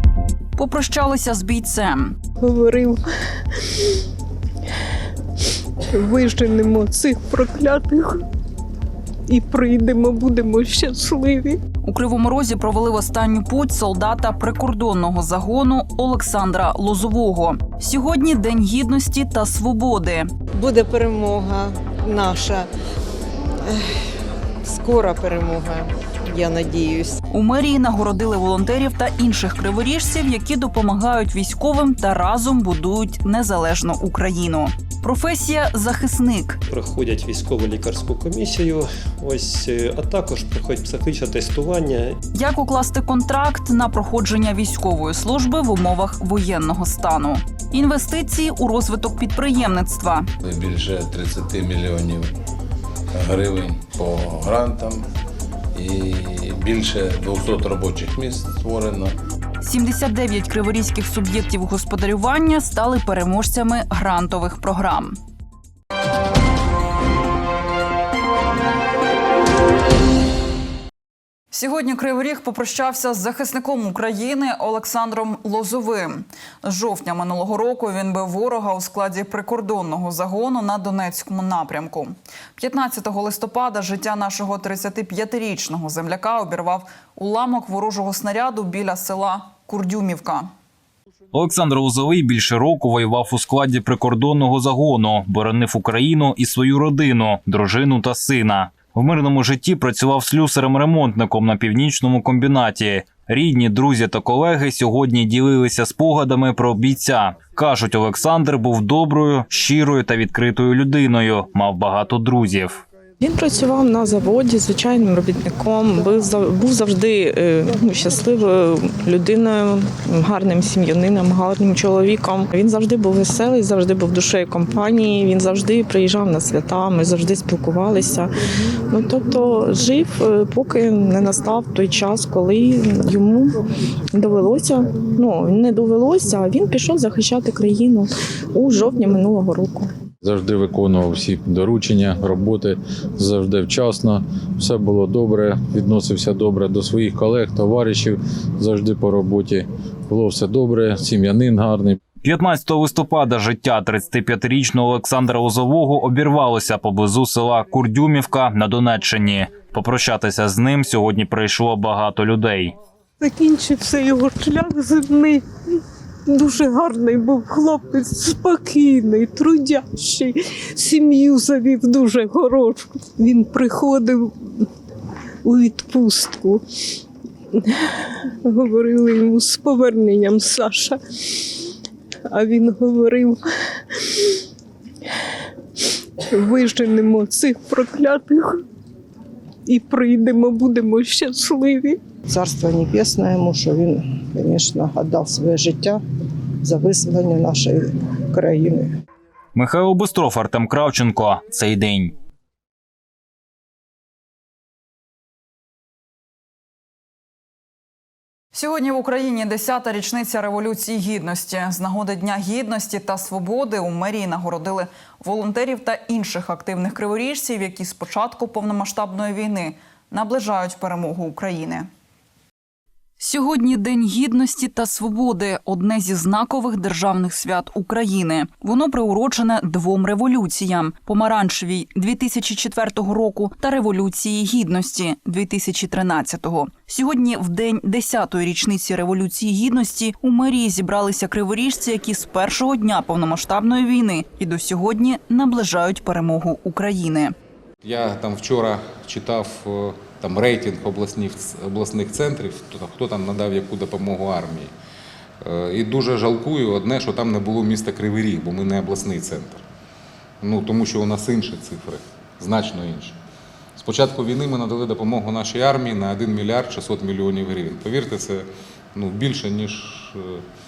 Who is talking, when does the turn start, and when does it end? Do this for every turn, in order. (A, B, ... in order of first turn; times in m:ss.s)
0:00.6-0:02.2 A
0:02.4-0:03.0 B
0:06.0-0:08.1 B
0:09.3-0:11.6 B
0:11.8-0:20.3 A
0:20.5-0:22.7 B
0:23.7-0:24.1 B
0:24.6-0:27.2 B
0:27.3-0:36.6 A
0:36.7-0:42.2 C
0:42.3-0:50.3 A
0:50.4-0:52.3 D
0:53.1-0:55.0 D
0:55.8-0:59.2 D
0:59.6-1:05.2 A
1:11.5-1:30.5 A
1:31.3-1:52.8 E
1:53.2-2:08.3 F
2:08.9-2:13.6 F
2:14.1-2:19.9 F
2:20.2-2:32.0 G
2:32.2-2:42.8 E
2:43.2-2:45.4 B
2:46.3-2:54.3 B
2:55.5-2:56.6 B
2:58.5-3:01.0 B
3:02.3-3:03.4 B
3:06.3-3:08.5 B
3:09.7-3:12.0 B
3:12.3-3:16.0 H
3:16.6-3:19.0 H
3:19.6-3:22.1 E
3:28.5-3:41.9 A
3:43.2-4:07.4 A
4:07.8-4:14.7 I
4:15.4-4:19.6 I
4:20.4-4:23.2 I
4:23.8-4:30.4 I